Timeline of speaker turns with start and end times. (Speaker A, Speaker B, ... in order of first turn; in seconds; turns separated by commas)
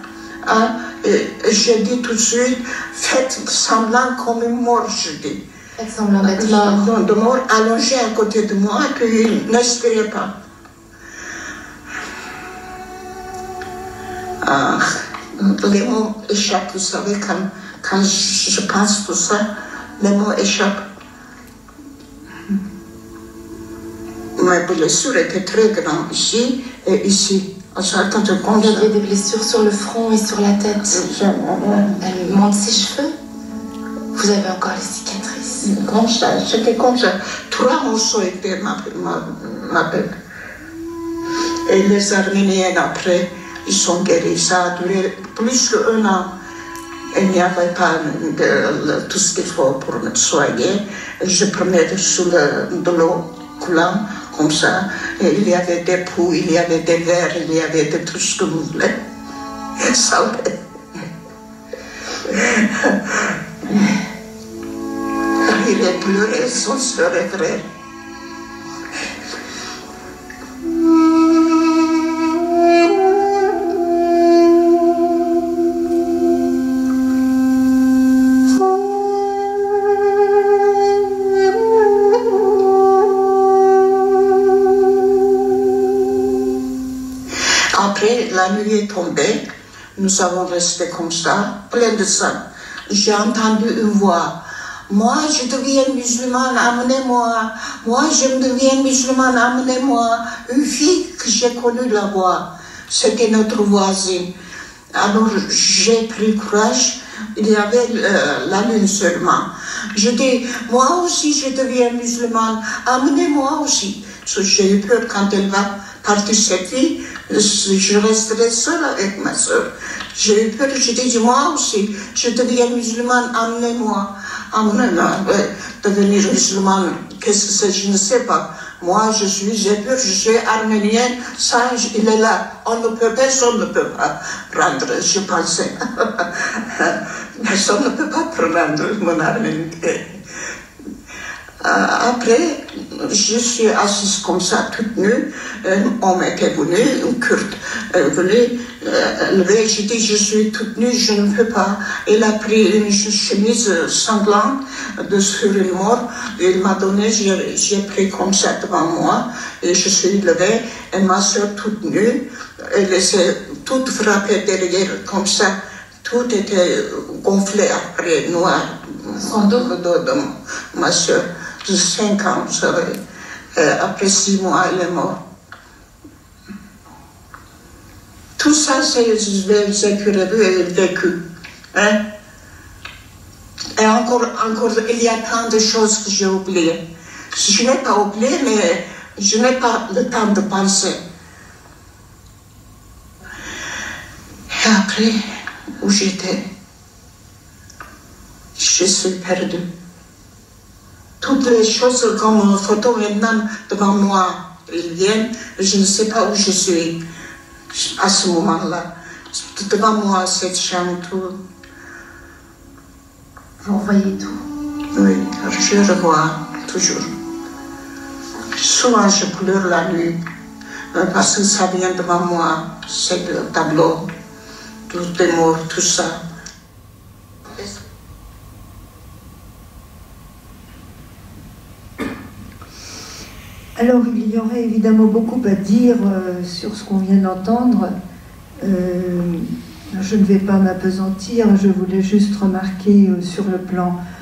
Speaker A: 0.4-5.4, Speaker B: 5.8-6.9, Speaker A: 6.2-10.3, Speaker A: 14.4-19.4, Speaker A: 20.0-20.8, Speaker A: 24.4-28.9, Speaker B: 28.4-31.1, Speaker A: 30.9-32.4, Speaker B: 32.0-33.1, Speaker B: 34.1-35.7, Speaker A: 35.6-40.0, Speaker A: 41.7-46.3, Speaker A: 47.1-58.9, Speaker A: 59.8-61.0, Speaker A: 62.2-63.9, Speaker A: 65.4-67.6, Speaker A: 87.7-89.4, Speaker A: 90.0-94.4, Speaker A: 94.9-104.3, Speaker A: 104.9-140.2, Speaker A: 141.6-173.0, Speaker A: 173.5-175.2, Speaker A: 178.4-181.2, Speaker A: 181.7-182.0, Speaker A: 183.8-186.8, Speaker A: 187.3-191.0, Speaker A: 194.5-195.2, Speaker A: 195.8-196.4, Speaker A: 198.6-199.7, Speaker A: 201.2-207.0, Speaker A: 207.7-211.4, Speaker B: 213.6-214.4, Speaker A: 214.9-217.1, Speaker A: 218.6-220.2, Speaker A: 220.9-224.0, Speaker A: 224.9-226.2, Speaker A: 227.5-227.8, Speaker C: 233.8-237.9, Speaker C: 238.6-244.0